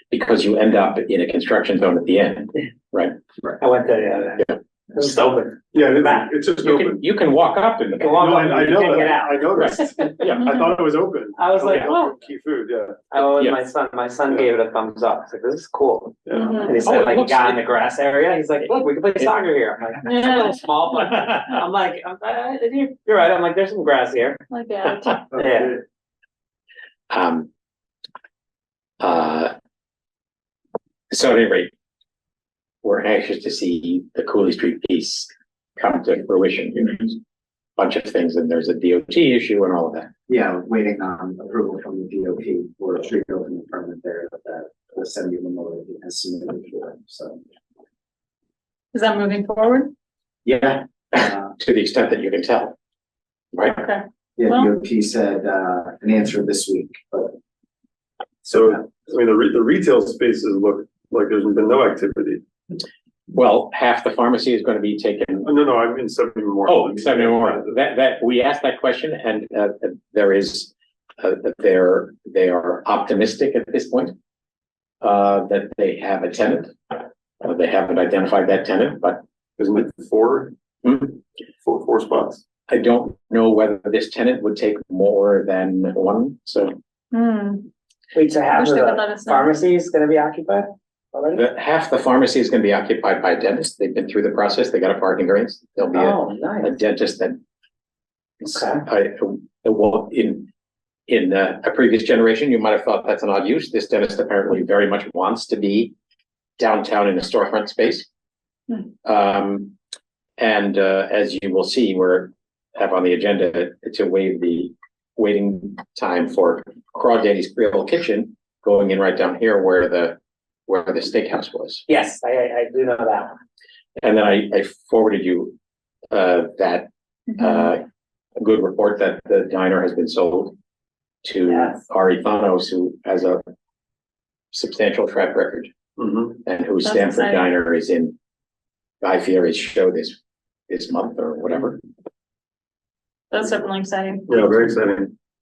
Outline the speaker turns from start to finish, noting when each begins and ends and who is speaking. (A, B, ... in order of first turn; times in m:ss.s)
0:00.1-0:03.2 A
0:03.6-0:06.3 B
0:05.7-0:07.0 C
0:06.6-0:08.8 A
0:08.0-0:10.3 B
0:08.2-0:13.1 C
0:09.5-0:10.4 A
0:11.4-0:12.1 B
0:13.1-0:24.5 B
0:13.2-0:13.6 A
0:16.3-0:16.8 C
0:16.3-0:16.8 D
0:16.8-0:17.6 A
0:20.0-0:21.6 D
0:24.5-0:25.3 D
0:25.3-0:25.8 B
0:27.1-0:27.5 A
0:29.0-0:29.5 A
0:31.1-0:31.7 A
0:32.8-0:37.2 A
0:37.8-0:40.1 A
0:40.3-0:47.4 E
0:48.9-0:49.9 D
0:50.5-0:51.5 E
0:51.2-0:52.8 A
0:53.7-0:54.7 D
0:54.4-0:57.4 E
0:58.5-0:58.8 E
0:58.5-1:02.4 C
1:03.3-1:05.5 A
1:05.4-1:07.7 C
1:06.6-1:14.2 A
1:15.0-1:16.7 A
1:17.4-1:19.2 A
1:19.6-1:21.0 C
1:20.8-1:21.2 A
1:21.6-1:22.4 C
1:22.7-1:26.8 A
1:27.1-1:27.7 D
1:28.1-1:31.4 B
1:28.5-1:29.5 D
1:31.3-1:37.4 A
1:35.9-1:36.8 B
1:38.4-1:38.8 B
1:38.5-1:40.5 A
1:41.1-1:46.0 A
1:46.6-1:48.1 A
1:49.0-1:49.8 A
1:50.4-2:01.9 A
2:01.9-2:03.3 B
2:04.0-2:05.6 A
2:06.1-2:07.8 A
2:07.3-2:07.7 D
2:08.4-2:10.6 A
2:11.2-2:13.4 A
2:11.5-2:11.8 B
2:14.5-2:15.7 A
2:16.0-2:16.3 C
2:16.2-2:18.2 A
2:16.8-2:17.4 D
2:19.0-2:20.2 A
2:20.7-2:21.8 A
2:23.3-2:24.5 D
2:24.3-2:25.2 C